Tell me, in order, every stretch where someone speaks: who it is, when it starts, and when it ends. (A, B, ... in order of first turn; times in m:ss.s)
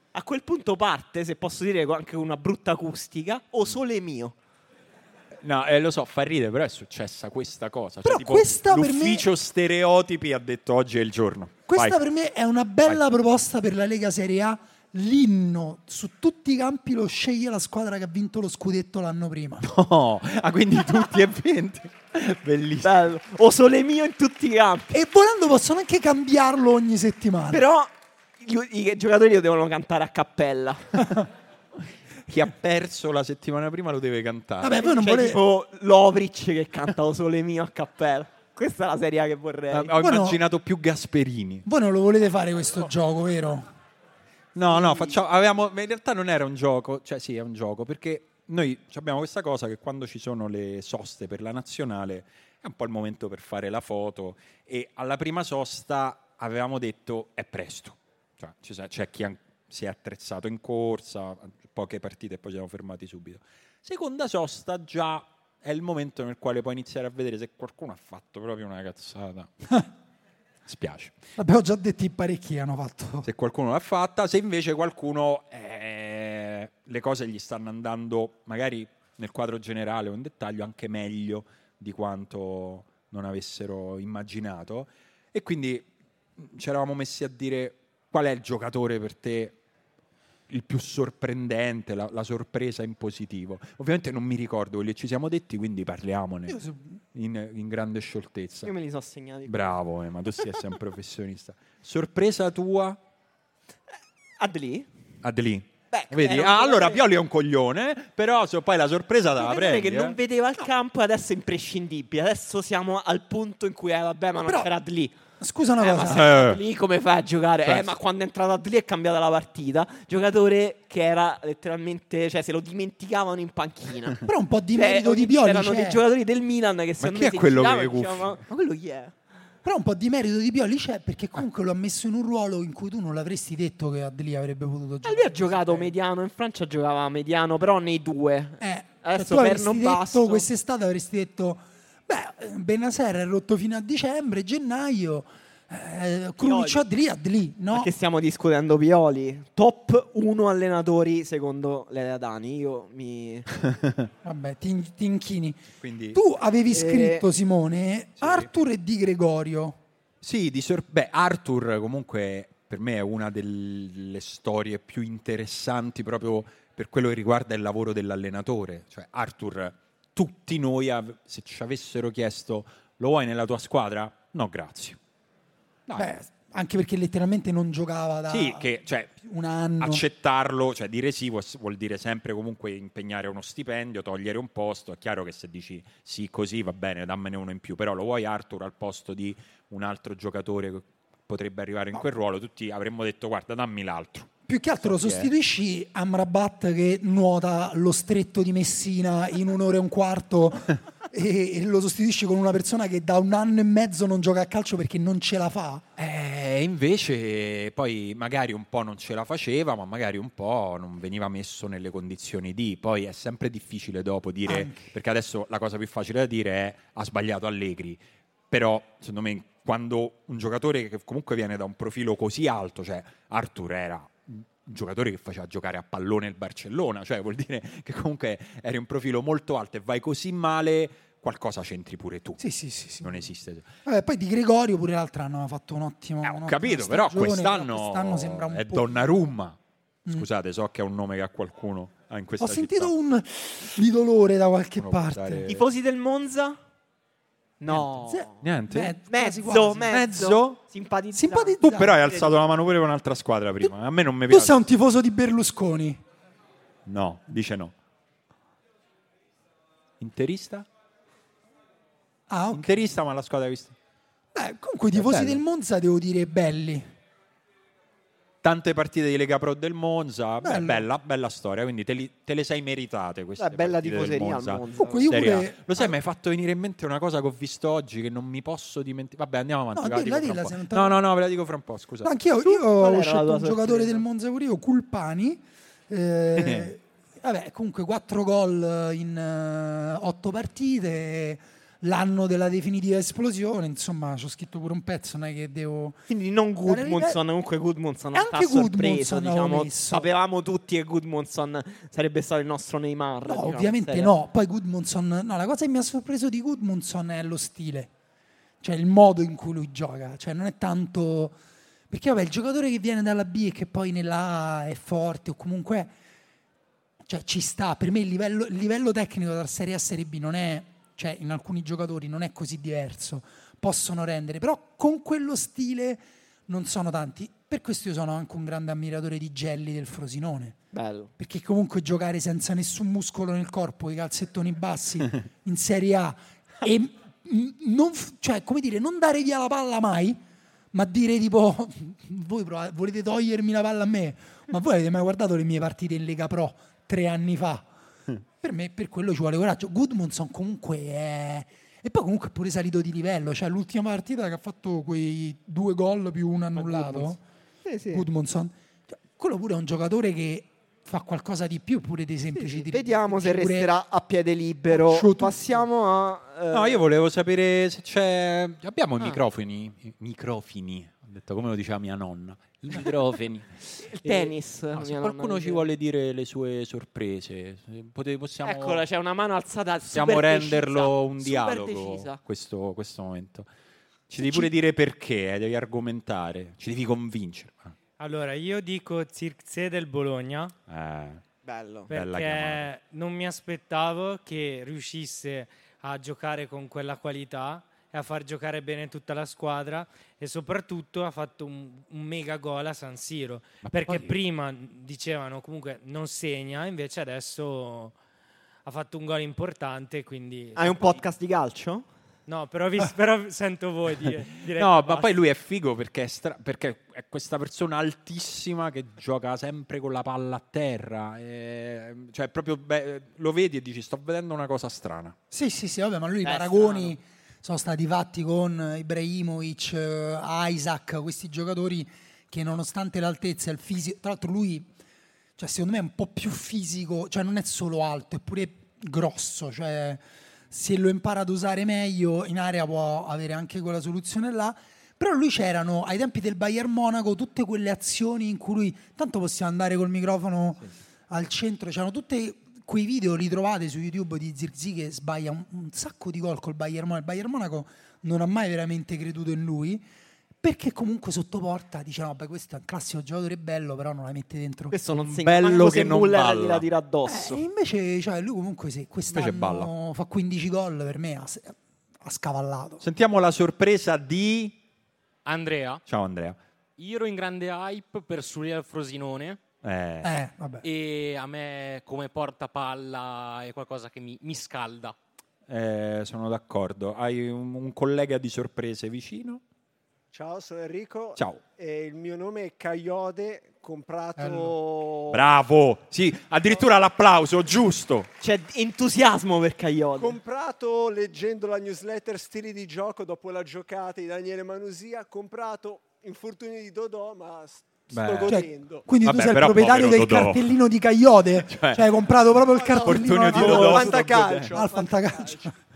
0:00.1-0:04.4 A
0:05.4-0:12.0 B
0:08.0-0:09.2 C
0:11.7-0:19.6 C
0:19.6-0:22.9 B
0:22.8-0:24.9 A
0:24.9-0:27.6 C
0:27.5-0:30.9 A
0:32.3-0:34.8 B
0:34.6-0:35.4 C
0:34.8-0:40.0 A
0:39.7-0:41.6 B
0:40.0-0:40.4 C
0:41.6-0:43.7 C
0:44.5-1:09.5 B
0:44.7-0:45.1 C
1:10.6-1:11.2 B
1:11.4-1:13.3 C
1:13.2-1:29.6 B
1:30.5-1:36.6 B
1:36.5-1:36.9 C
1:37.1-1:38.7 B
1:38.6-1:39.8 A
1:39.4-1:43.0 B
1:44.4-1:44.9 A
1:45.2-1:50.2 B
1:45.9-1:47.0 A
1:49.4-1:55.2 A
1:55.4-1:56.3 C
1:55.8-2:04.2 A
1:56.1-1:56.6 B
1:57.6-1:57.9 B
2:04.2-2:06.0 C
2:04.7-2:09.1 A
2:07.0-2:08.4 B
2:09.6-2:15.9 C
2:15.0-2:20.4 A
2:18.6-2:27.9 C
2:26.4-2:26.8 A
2:27.7-2:33.5 A
2:33.6-2:34.1 B
2:34.2-2:39.8 C
2:35.8-2:36.2 B
2:36.7-2:37.2 A
2:38.2-2:38.5 B
2:40.2-2:55.0 B
2:55.9-2:56.1 B
2:56.0-2:58.7 C
2:58.3-2:59.1 B
2:59.2-3:00.0 C
2:59.8-3:14.3 B
3:14.5-3:25.8 C
3:14.8-3:15.3 B
3:26.0-3:52.4 B
3:34.4-3:34.9 C
3:52.4-3:53.3 C
3:53.0-3:53.7 B
3:53.8-3:59.0 C
3:56.2-4:02.9 B
4:02.4-4:05.5 C
4:04.8-4:05.6 B
4:05.4-4:06.6 A
4:07.6-4:08.4 A
4:08.1-4:09.9 C
4:08.4-4:09.0 B
4:09.1-4:12.3 A
4:09.9-4:10.6 B
4:11.1-4:12.0 C
4:11.6-4:14.6 B
4:14.3-4:16.0 C
4:16.8-4:17.7 B
4:20.0-4:20.7 B
4:22.3-4:22.8 C
4:22.5-4:23.8 B
4:24.3-4:26.9 C
4:24.9-4:25.4 B
4:28.4-4:42.1 B
4:30.4-4:30.9 C
4:33.4-4:35.1 A
4:34.8-4:35.9 C
4:39.7-4:41.0 C
4:42.0-4:56.0 C
4:42.4-4:44.0 A
4:46.4-4:46.7 B
4:56.1-5:04.1 A
4:56.6-4:57.2 C
4:58.1-5:00.1 C
5:03.2-5:07.9 C
5:08.6-5:11.3 C
5:11.9-5:15.9 C
5:17.1-5:30.6 C
5:30.7-5:31.1 A
5:31.2-5:40.2 C
5:40.7-5:47.6 C
5:48.4-5:57.2 C
5:56.5-5:57.1 A
5:57.6-5:58.0 A
5:57.9-6:03.7 C
6:02.3-6:06.8 A
6:04.7-6:05.6 C
6:06.5-6:18.8 B
6:13.9-6:15.6 A
6:18.4-6:22.2 A
6:19.9-6:23.5 B
6:24.1-6:27.8 B
6:28.0-6:30.5 D
6:30.7-6:31.2 B
6:31.4-6:31.9 A
6:31.9-6:48.0 D
6:31.9-6:32.7 B
6:43.6-6:44.2 B
6:48.6-6:51.0 D
6:50.5-6:51.9 A
6:52.3-6:55.1 D
6:54.5-7:05.2 B
7:05.3-7:14.7 C
7:06.2-7:06.9 A
7:15.4-7:39.8 C
7:40.4-7:44.8 C
7:44.7-7:47.4 A
7:45.0-7:46.6 B
7:47.1-7:52.8 C
7:49.1-7:49.7 B
7:52.8-7:54.6 B
7:55.2-7:55.8 E
7:55.8-7:56.4 B
7:56.8-7:59.4 E
7:59.6-8:00.1 B
8:00.0-8:00.6 C
8:00.6-8:04.9 E
8:05.5-8:09.4 B
8:10.1-8:15.2 F
8:11.2-8:11.4 B
8:14.2-8:14.5 C
8:15.1-8:18.1 B
8:18.2-8:20.2 A
8:20.0-8:28.9 F
8:27.9-8:28.4 B
8:28.2-8:35.5 C
8:29.0-8:30.5 B
8:31.4-8:31.9 B
8:32.5-8:35.5 F
8:32.8-8:34.5 B
8:33.3-8:34.4 A